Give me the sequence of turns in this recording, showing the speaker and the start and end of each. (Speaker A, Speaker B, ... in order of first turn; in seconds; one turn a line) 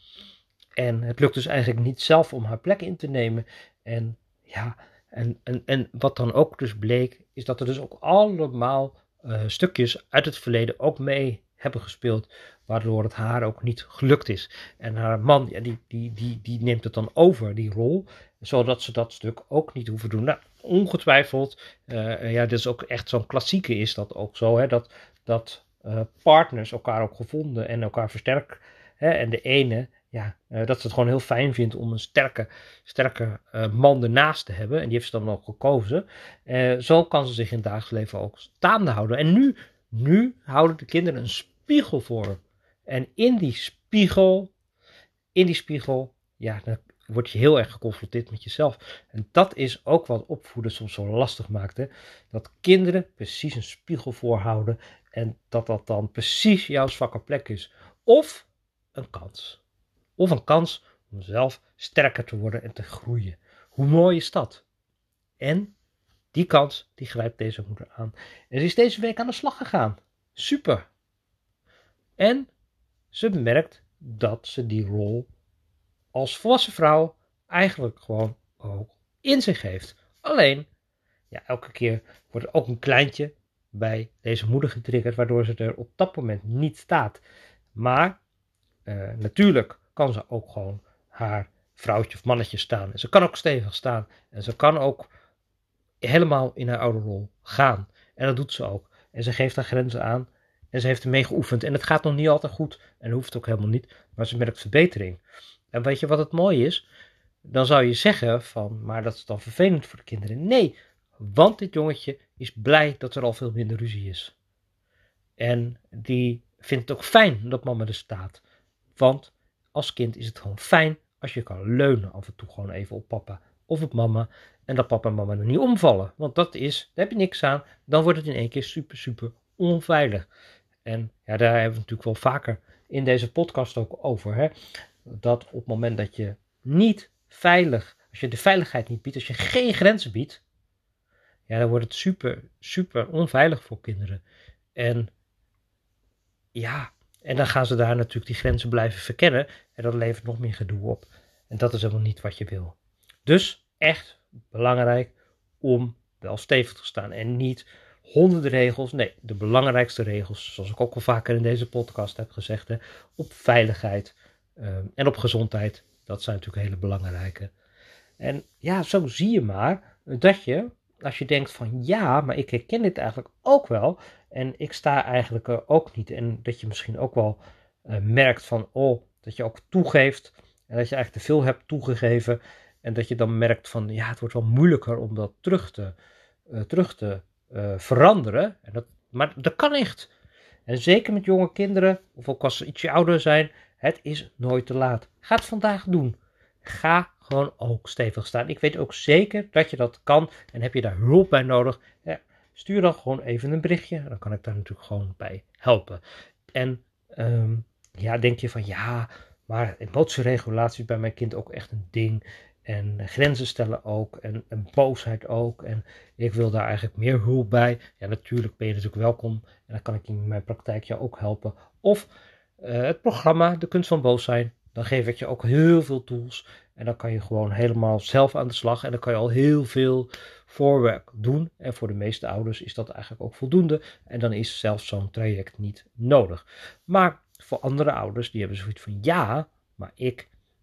Speaker A: 0.8-44.5
Speaker A: 45.3-59.6
Speaker A: 60.2-64.6
Speaker A: 65.4-65.7
Speaker A: 66.3-70.8
Speaker A: 72.2-72.5
Speaker A: 73.1-75.3
Speaker A: 76.1-80.7
Speaker A: 81.3-87.2
Speaker A: 87.7-88.2
Speaker A: 88.8-95.1
Speaker A: 96.0-106.8
Speaker A: 107.5-114.3
Speaker A: 115.4-118.4
Speaker A: 119.0-130.3
Speaker A: 130.8-134.5
Speaker A: 135.1-140.4
Speaker A: 141.5-144.2
Speaker A: 144.8-145.1
Speaker A: 146.5-167.5
Speaker A: 168.2-185.9
Speaker A: 186.5-190.1
Speaker A: 190.7-206.0
Speaker A: 206.5-222.1
Speaker A: 222.6-240.3